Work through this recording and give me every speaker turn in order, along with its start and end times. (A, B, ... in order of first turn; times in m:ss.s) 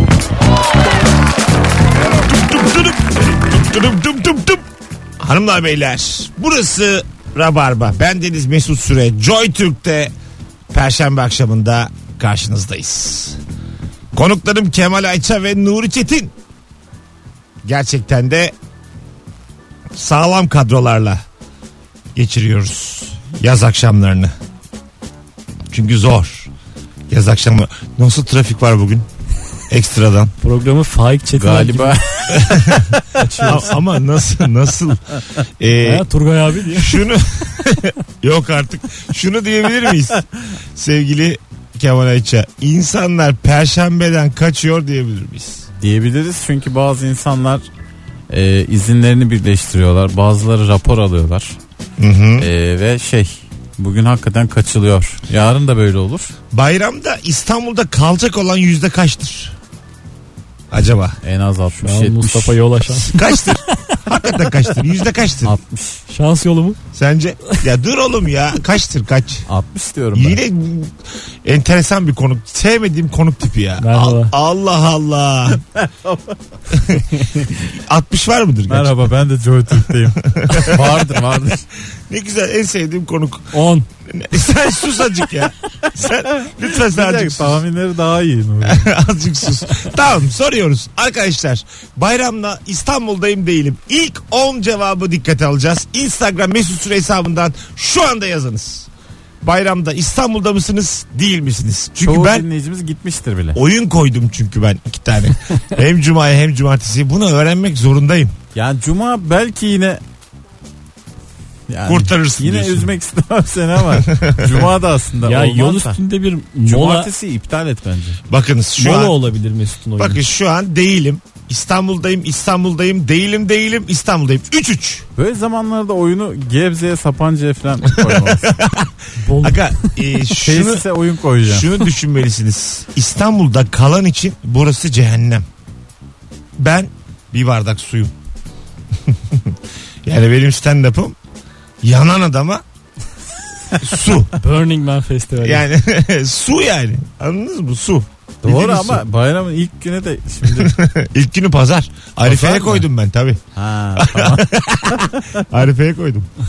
0:02.3-0:04.6 A
0:05.2-0:10.1 A
0:10.7-0:13.4 A
0:14.1-0:16.3 A
0:17.6-0:18.5 A
0:20.0-0:21.2 A
0:22.1-0:24.3 A
0:25.7-0:26.5 A
0:27.1-0:29.1 A
0:29.7-0:30.3 A
0:30.4-0:32.4 B
0:31.4-0:33.6 C
0:32.4-0:36.1 A
0:33.1-0:33.8 B
0:35.8-0:37.1 B
0:36.7-0:40.2 A
0:40.8-0:45.6 A
0:45.8-0:47.6 C
0:48.3-0:51.6 C
0:52.0-0:52.5 A
0:52.4-0:56.3 C
0:56.5-0:59.6 A
1:00.7-1:01.2 A
1:01.2-1:02.6 C
1:01.8-1:04.0 B
1:02.9-1:05.6 A
1:05.4-1:06.0 C
1:06.1-1:06.8 B
1:06.9-1:09.5 A
1:09.5-1:10.4 C
1:10.2-1:15.6 A
1:13.8-1:14.3 B
1:15.8-1:16.3 C
1:16.7-1:18.9 A
1:17.2-1:17.5 B
1:18.7-1:21.7 C
1:20.2-1:21.0 A
1:22.1-1:23.5 A
1:23.5-1:23.9 B
1:24.1-1:27.6 A
1:26.4-1:28.9 C
1:28.6-1:38.9 A
1:39.4-1:42.4 A
1:42.0-1:43.6 C
1:43.5-1:48.3 A
1:48.6-1:50.0 C
1:51.7-1:56.0 C
1:51.9-1:52.9 A
1:54.0-1:54.7 A
1:55.2-1:57.1 B
1:56.7-1:58.2 C
1:58.3-1:59.2 A
1:58.8-2:00.2 B
2:00.0-2:05.1 A
2:05.2-2:08.6 C
2:07.9-2:10.8 A
2:09.2-2:10.0 B
2:10.4-2:11.7 C
2:11.4-2:15.4 A
2:16.6-2:18.1 A
2:19.1-2:21.2 A
2:21.8-2:22.6 A
2:23.8-2:24.3 A
2:24.3-2:25.7 B
2:25.4-2:29.0 A
2:28.4-2:30.8 C
2:30.5-2:33.4 A
2:32.2-2:32.8 C
2:33.6-2:35.1 C
2:33.9-2:36.3 A